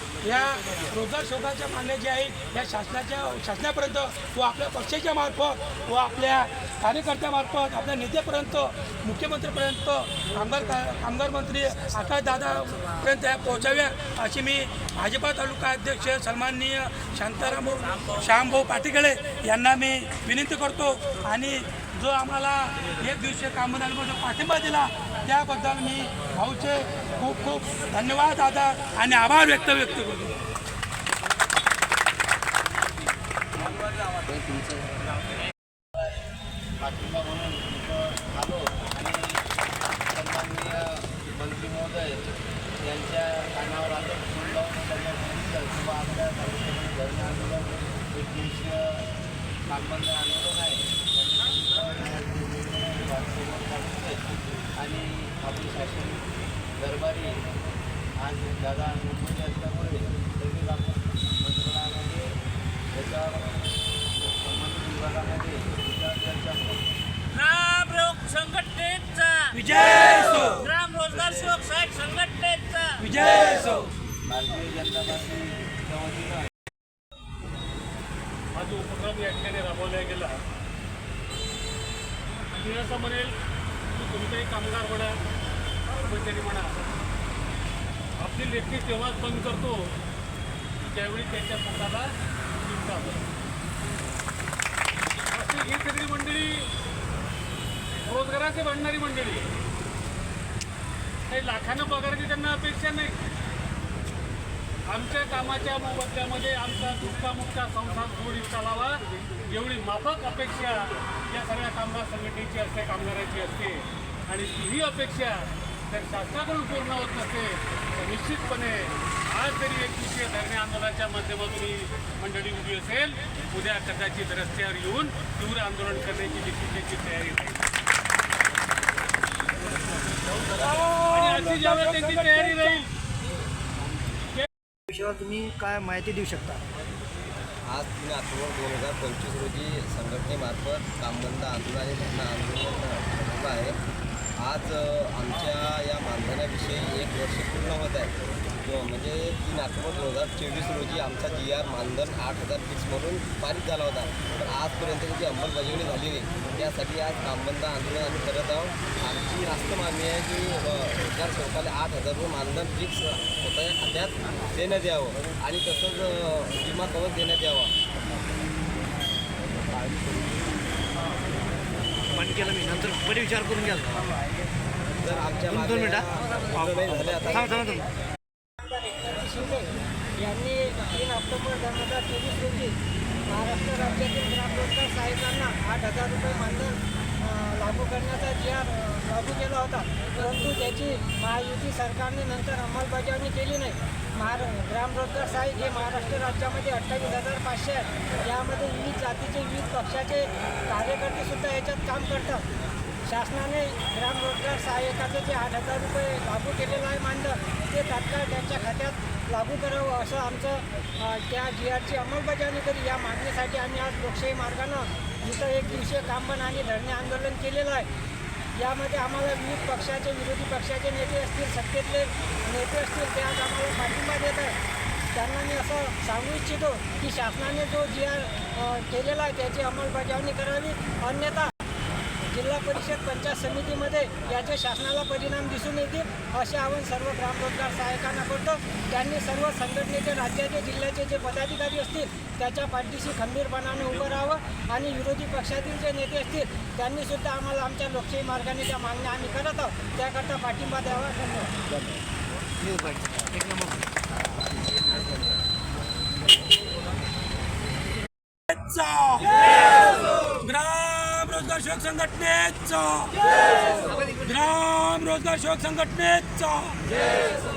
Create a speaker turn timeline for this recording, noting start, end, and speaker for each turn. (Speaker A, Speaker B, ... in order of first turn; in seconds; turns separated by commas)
Speaker A: 0.2-30.3, Speaker B: 36.8-39.2, Speaker B: 40.1-42.2, Speaker B: 42.8-49.0, Speaker B: 49.7-54.2, Speaker B: 54.8-56.2, Speaker B: 56.8-57.4, Speaker B: 58.2-62.2, Speaker B: 62.9-63.4, Speaker B: 64.4-66.8, Speaker C: 67.3-73.1, Speaker A: 69.5-70.7, Speaker B: 71.1-71.5, Speaker A: 73.0-73.8, Speaker B: 74.2-76.5, Speaker D: 78.5-80.3, Speaker D: 82.6-83.3, Speaker D: 83.9-85.1, Speaker D: 86.0-86.7, Speaker D: 88.2-89.9, Speaker D: 90.8-92.1, Speaker D: 92.6-93.2, Speaker D: 95.3-96.7, Speaker D: 98.1-99.5, Speaker D: 101.3-103.2, Speaker D: 104.9-127.6, Speaker A: 130.6-132.8, Speaker D: 131.1-132.9, Speaker E: 134.9-136.6, Speaker F: 137.7-143.8, Speaker F: 144.4-167.7, Speaker E: 172.2-173.9, Speaker F: 175.0-177.6, Speaker E: 175.5-177.8, Speaker G: 178.6-182.8, Speaker G: 183.3-202.5, Speaker G: 203.0-217.9, Speaker G: 218.6-224.6, Speaker G: 225.1-231.5, Speaker G: 232.3-251.5, Speaker A: 258.5-259.4, Speaker A: 260.4-263.2, Speaker A: 264.1-266.8